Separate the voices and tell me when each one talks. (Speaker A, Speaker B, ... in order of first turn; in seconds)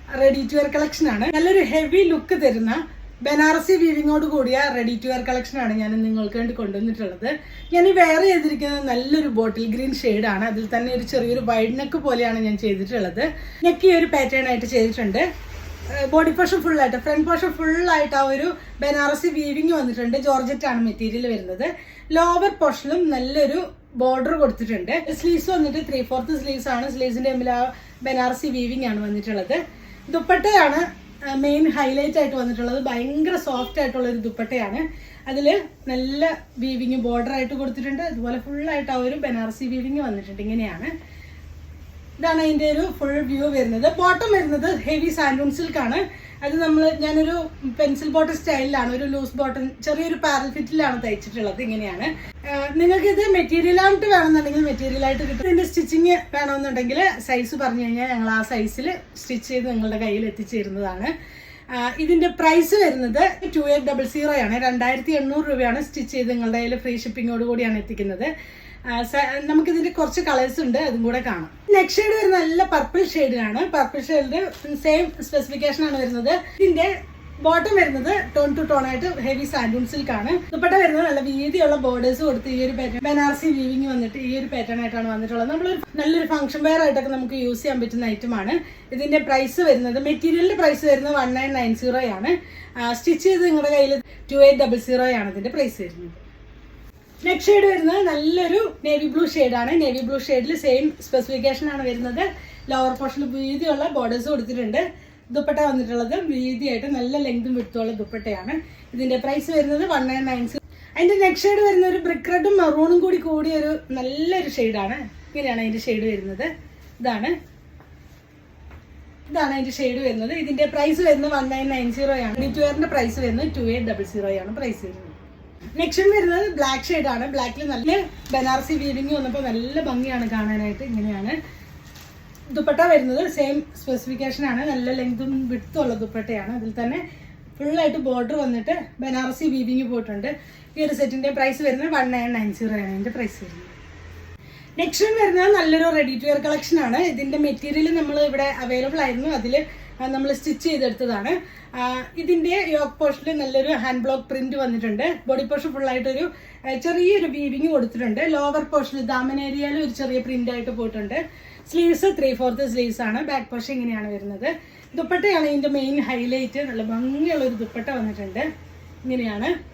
Speaker A: 0.1-15.2, 15.9-40.9, 42.2-61.1, 61.7-68.3, 68.8-96.2, 97.2-117.3, 119.3-125.1, 125.8-131.3, 132.5-137.0, 137.6-143.8, 144.8-168.5, 169.0-169.5